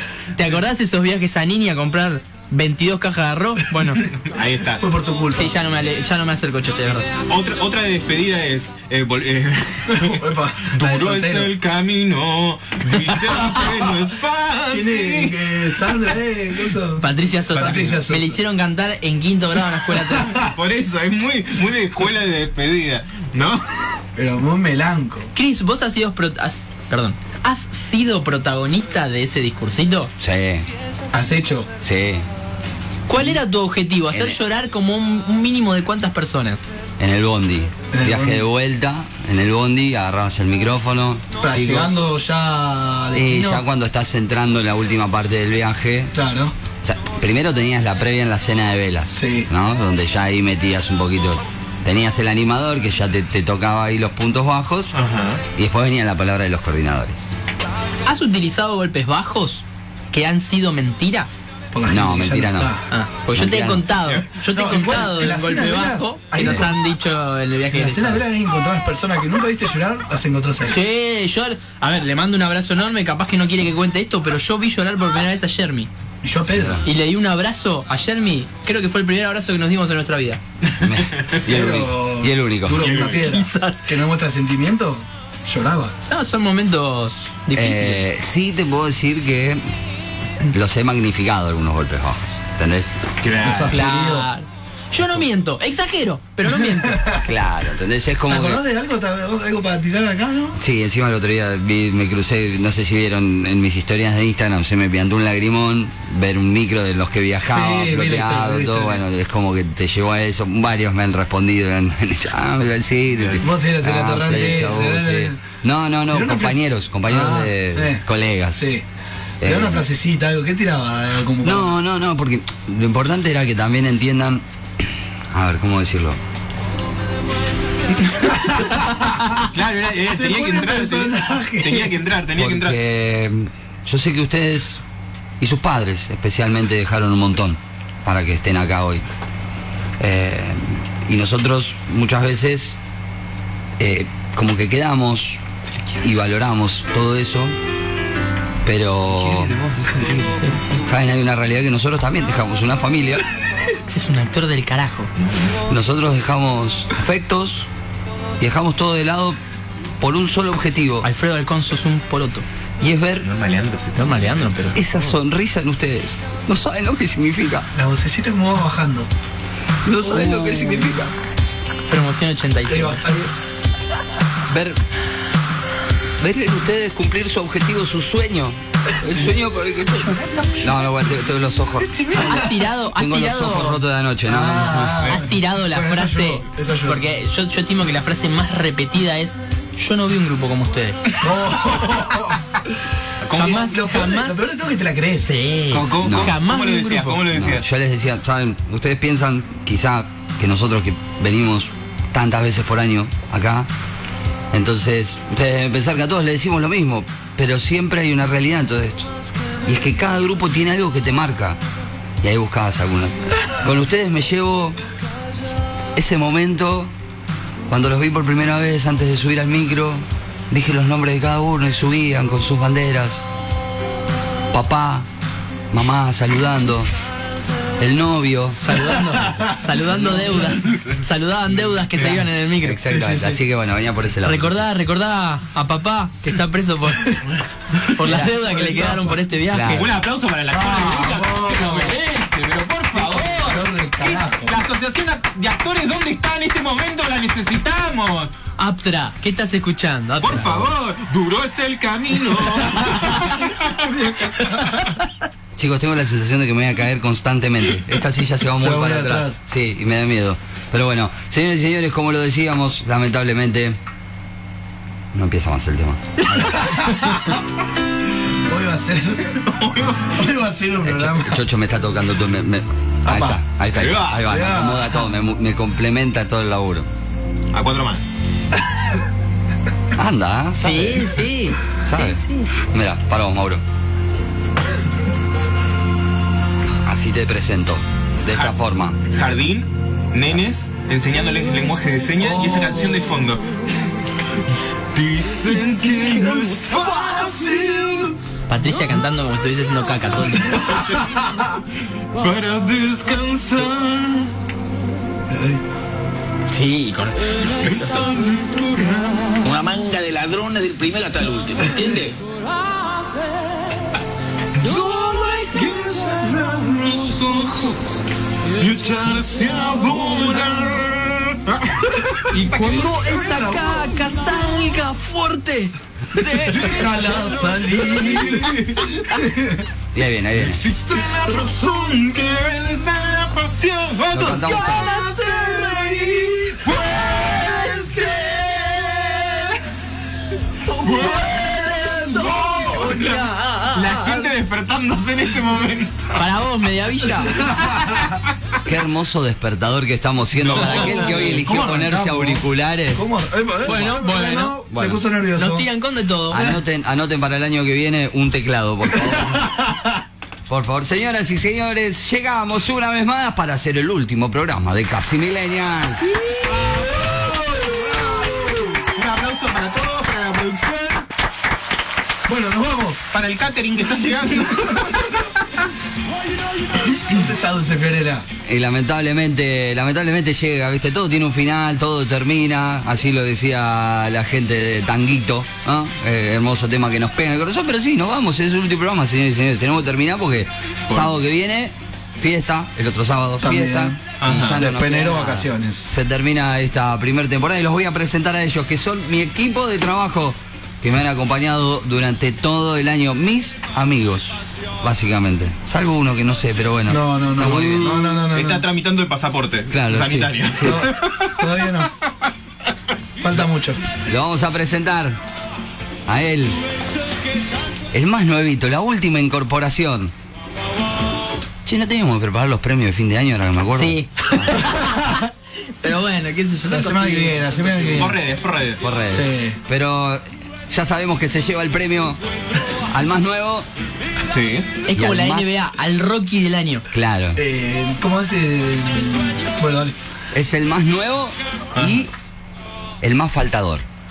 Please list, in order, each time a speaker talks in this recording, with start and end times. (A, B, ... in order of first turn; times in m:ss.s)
0:00.4-0:04.0 A
0:04.1-0:04.8 B
0:04.8-0:05.5 C
0:05.4-0:07.1 A
0:07.3-0:15.4 B
0:09.9-0:11.5 C
0:13.6-0:13.9 C
0:14.7-0:18.4 C
0:17.0-0:20.4 A
0:20.3-0:24.0 B
0:24.1-0:25.3 C
0:25.3-0:30.1 A
0:30.2-0:30.7 D
0:31.1-0:31.7 C
0:31.8-0:32.2 D
0:33.1-0:36.6 A
0:34.1-0:34.4 D
0:37.0-0:41.9 D
0:37.9-0:38.5 C
0:41.4-0:43.6 C
0:43.1-0:46.1 D
0:46.1-0:46.5 C
0:46.8-0:54.9 D
0:49.1-0:49.5 C
0:54.9-0:55.4 B
0:55.5-0:57.3 D
0:58.0-1:01.3 A
1:01.7-1:02.8 C
1:01.9-1:02.7 D
1:02.9-1:08.2 A
1:03.3-1:03.9 D
1:04.5-1:06.7 C
1:06.4-1:06.7 D
1:07.7-1:10.8 C
1:10.7-1:15.9 A
1:16.2-1:16.8 C
1:16.5-1:16.8 D
1:16.8-1:20.4 A
1:20.8-1:23.0 D
1:21.4-1:25.9 C
1:22.8-1:23.3 B
1:23.2-1:24.0 A
1:26.1-1:28.0 A
1:27.5-1:29.6 D
1:30.5-1:33.0 D
1:33.2-1:33.8 B
1:33.4-1:34.3 C
1:33.7-1:37.0 A
1:36.5-1:37.3 C
1:37.2-1:38.6 D
1:38.3-1:40.6 C
1:40.6-1:58.7 D
1:47.5-1:49.0 C
1:53.1-1:53.4 B
1:53.4-1:55.4 C
1:56.1-1:58.8 C
1:59.4-1:59.8 D
1:59.4-2:01.7 C
2:01.4-2:06.2 D
2:08.5-2:09.4 C
2:09.4-2:12.8 B
2:10.0-2:12.0 C
2:12.4-2:14.8 D
2:15.4-2:19.0 D
2:20.0-2:22.8 D
2:23.8-2:25.4 D
2:26.0-2:27.6 D
2:28.6-2:29.6 D
2:29.5-2:30.2 B
2:30.0-2:30.8 A
2:30.8-2:33.2 D
2:33.9-2:35.1 A
2:35.2-2:35.5 B
2:35.7-2:37.7 D
2:38.4-2:39.4 D
2:40.0-2:41.0 D
2:41.0-2:42.4 A
2:42.8-2:43.3 D
2:43.2-2:44.4 B
2:43.9-2:45.1 A
2:44.7-2:47.7 D
2:47.7-2:49.1 C
2:49.8-2:51.1 D
2:50.0-2:50.9 C
2:51.9-2:53.0 A
2:52.6-2:53.3 C
2:54.5-2:54.8 D
2:56.2-3:05.1 D
3:02.1-3:03.8 A
3:04.2-3:07.0 C
3:05.1-3:11.0 A
3:11.2-3:12.4 C
3:13.3-3:14.4 A
3:13.3-3:15.4 C
3:13.3-3:13.6 B
3:15.2-3:17.2 A
3:15.7-3:17.6 B
3:15.9-3:16.4 D
3:17.3-3:23.7 D
3:24.5-3:29.1 D
3:29.6-3:31.6 D
3:32.2-3:34.8 D
3:35.9-3:36.9 D
3:37.7-3:43.2 D
3:44.5-3:45.0 D
3:45.7-3:46.9 D
3:47.8-3:48.6 D
3:48.6-3:52.8 A
3:49.1-3:49.8 C
3:52.6-3:54.6 D
3:52.8-3:53.4 C
3:54.2-3:57.3 A
3:57.8-3:59.9 A
3:58.0-3:58.3 D
3:58.1-3:59.2 C
3:59.4-3:59.8 D
3:59.7-4:08.3 B
4:00.5-4:02.0 C
4:02.9-4:04.5 C
4:08.6-4:10.5 A
4:10.2-4:14.3 B
4:13.7-4:14.7 C
4:15.6-4:23.8 D
4:18.5-4:19.4 C
4:25.1-4:26.8 D
4:26.4-4:27.4 C
4:28.4-4:29.4 C
4:29.4-4:30.2 B
4:30.0-4:31.4 C
4:30.8-4:36.9 D
4:33.0-4:33.4 C
4:33.7-4:34.2 B
4:34.2-4:35.1 C
4:37.5-4:38.0 B
4:39.9-4:41.2 D
4:40.6-4:42.5 A
4:41.7-4:43.6 D
4:46.8-4:49.0 D
4:48.3-4:53.4 B
4:52.2-4:53.1 C
4:54.9-4:57.7 B
4:55.6-4:58.1 C
4:58.5-5:00.7 A
5:00.6-5:01.2 B
5:00.8-5:01.3 C
5:02.2-5:04.3 B
5:05.3-5:05.6 C
5:06.5-5:07.9 A
5:07.6-5:09.4 B
5:09.4-5:12.2 E
5:14.5-5:17.9 B
5:18.6-5:22.8 B
5:22.3-5:26.8 A
5:22.5-5:24.0 C
5:26.5-5:28.9 B
5:26.5-5:29.7 C
5:29.9-5:30.6 D
5:30.3-5:38.3 B
5:34.1-5:34.9 D
5:34.2-5:36.4 A
5:35.6-5:36.6 C
5:37.2-5:39.4 C
5:37.2-5:39.4 A
5:40.7-5:43.2 C
5:40.8-5:41.4 B
5:40.8-5:44.0 A
5:42.1-5:46.3 B
5:46.2-5:47.5 A
5:47.4-5:48.1 C
5:47.8-5:48.1 B
5:48.6-5:53.0 D
5:50.3-5:51.4 B
5:50.5-5:51.4 A
5:51.2-5:55.7 C
5:53.6-5:54.6 A
5:54.7-5:55.0 D
5:55.4-5:56.5 A
5:56.3-5:59.5 D
5:59.1-5:59.9 C
6:00.5-6:06.2 D
6:06.3-6:08.9 C
6:08.9-6:11.0 B
6:12.2-6:13.1 C
6:13.1-6:15.3 B
6:14.5-6:15.2 C
6:16.6-6:18.3 C
6:18.4-6:48.1 D
6:33.4-6:34.0 C
6:34.2-6:34.7 B
6:34.5-6:35.9 C
6:46.9-6:48.6 C
6:47.8-6:51.4 B
6:49.7-6:50.8 D
6:50.6-6:51.9 C
6:53.2-6:53.8 C
6:54.1-6:55.2 D
6:56.0-6:56.6 D
6:57.9-7:00.1 D
7:01.6-7:04.6 D
7:03.7-7:08.1 A
7:04.8-7:05.2 C
7:06.7-7:08.2 C
7:07.9-7:08.8 B
7:08.8-7:13.7 D
7:09.1-7:09.6 C
7:14.3-7:14.7 B
7:14.8-7:16.8 A
7:14.9-7:15.6 D
7:16.9-7:17.4 D
7:17.4-7:20.0 C
7:20.3-7:22.1 D
7:21.7-7:22.0 B
7:23.0-7:23.8 D